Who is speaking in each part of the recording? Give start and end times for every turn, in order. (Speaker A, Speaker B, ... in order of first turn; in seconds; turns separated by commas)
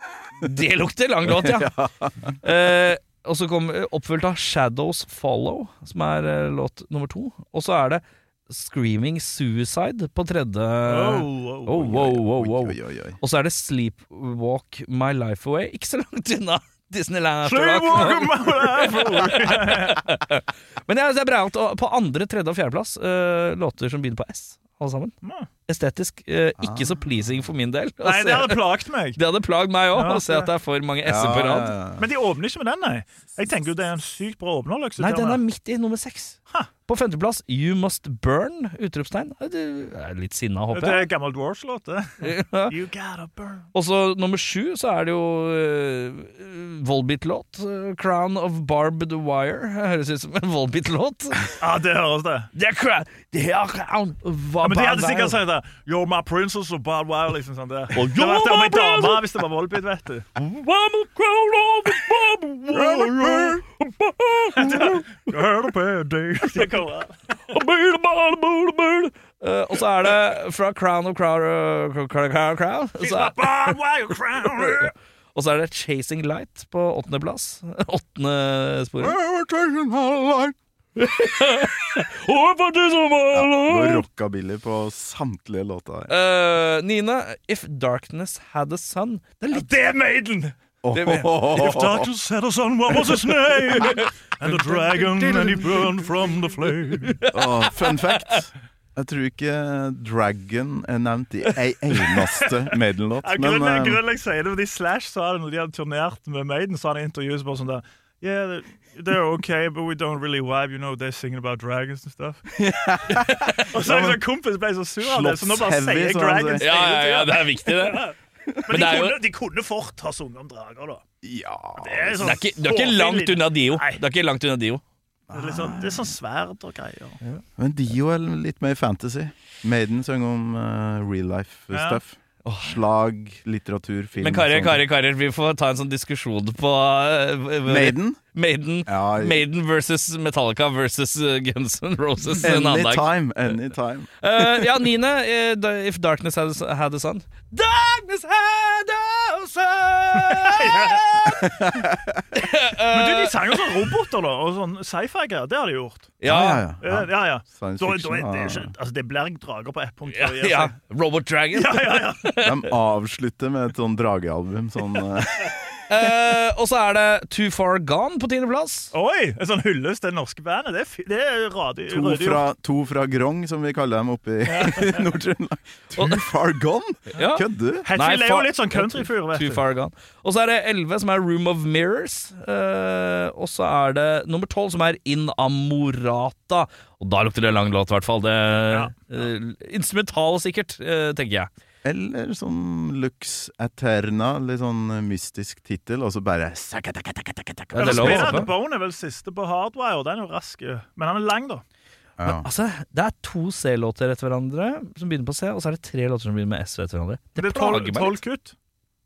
Speaker A: 0.4-1.7, Speaker B: 1.3-2.4, Speaker A: 2.4-25.1, Speaker C: 10.9-12.0, Speaker B: 11.8-13.2, Speaker C: 17.4-20.0, Speaker C: 25.2-25.5, Speaker A: 25.7-28.6, Speaker B: 26.6-27.5, Speaker C: 28.0-29.2, Speaker A: 29.2-31.7, Speaker C: 29.9-30.5, Speaker B: 31.0-32.1, Speaker C: 32.0-35.4, Speaker A: 35.0-41.1, Speaker C: 40.7-43.7, Speaker A: 42.2-42.7, Speaker A: 43.7-51.5, Speaker C: 51.6-52.5, Speaker A: 52.5-55.4, Speaker C: 54.6-60.3, Speaker A: 57.9-59.4, Speaker A: 60.4-65.1, Speaker B: 62.7-63.6, Speaker C: 64.6-67.2, Speaker A: 67.5-73.8, Speaker C: 73.0-74.9, Speaker A: 74.6-79.2, Speaker B: 79.0-80.6, Speaker A: 81.0-84.0, Speaker B: 83.3-86.1, Speaker A: 86.1-89.7, Speaker C: 89.5-90.5, Speaker B: 90.8-92.1, Speaker A: 91.0-91.3, Speaker C: 91.1-97.2, Speaker A: 93.7-98.4, Speaker B: 97.3-104.0, Speaker C: 103.2-112.4, Speaker B: 112.6-114.2, Speaker A: 113.1-113.8, Speaker C: 113.7-118.2, Speaker B: 115.0-116.7, Speaker A: 116.6-118.1, Speaker C: 118.7-121.0, Speaker A: 118.7-119.2, Speaker B: 121.2-122.4, Speaker C: 121.8-124.0, Speaker A: 122.2-124.8, Speaker B: 125.3-126.1, Speaker C: 125.3-127.2, Speaker B: 127.6-134.8, Speaker C: 131.7-132.0, Speaker A: 132.4-132.8, Speaker A: 134.2-143.1, Speaker B: 137.7-138.2, Speaker B: 138.9-139.4, Speaker B: 142.4-144.7, Speaker A: 144.2-151.7, Speaker C: 150.2-151.0, Speaker B: 151.3-152.2, Speaker A: 152.3-153.7, Speaker C: 152.9-156.2, Speaker A: 156.2-156.6, Speaker B: 156.2-158.7, Speaker C: 156.8-160.8, Speaker A: 160.1-162.7, Speaker C: 161.5-162.3, Speaker B: 162.4-165.6, Speaker A: 165.9-168.9, Speaker C: 168.9-172.5, Speaker B: 171.9-177.9, Speaker C: 174.5-175.0, Speaker A: 177.1-191.5, Speaker C: 177.8-179.7, Speaker C: 188.7-189.1, Speaker B: 191.8-198.5, Speaker A: 197.7-198.5, Speaker C: 197.8-201.6, Speaker B: 202.2-202.5, Speaker A: 202.2-208.2, Speaker C: 207.4-208.5